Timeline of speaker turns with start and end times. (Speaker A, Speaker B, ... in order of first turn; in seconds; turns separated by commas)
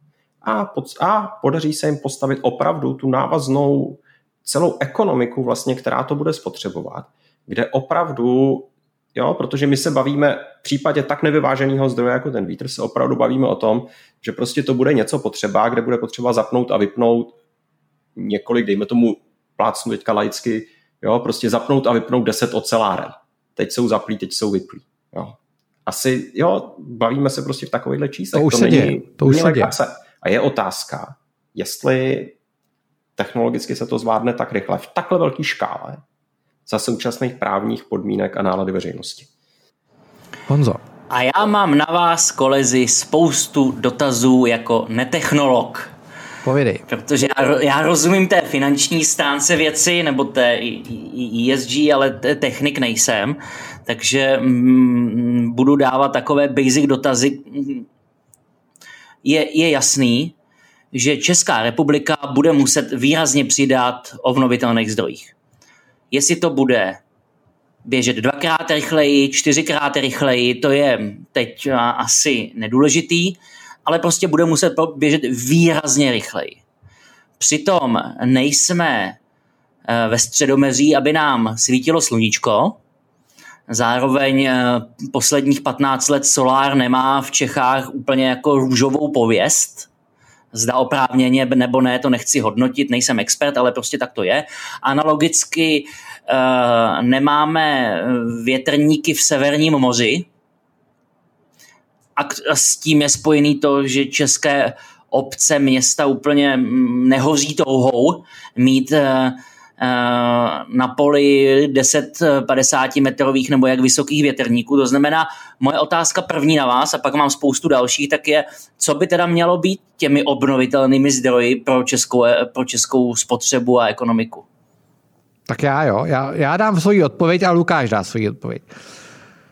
Speaker A: 0.4-17.4, Speaker A: 18.2-32.3, Speaker B: 28.3-29.8, Speaker A: 33.2-36.0, Speaker A: 36.7-39.3, Speaker B: 40.5-40.8, Speaker C: 41.1-45.9, Speaker B: 46.4-46.9, Speaker C: 46.9-57.9, Speaker C: 59.2-60.3, Speaker C: 60.9-65.3, Speaker C: 66.1-67.0, Speaker C: 67.8-76.6, Speaker C: 77.4-79.2, Speaker C: 79.9-82.8, Speaker C: 83.7-89.9, Speaker C: 90.5-100.3, Speaker C: 102.2-124.5, Speaker B: 125.5-128.7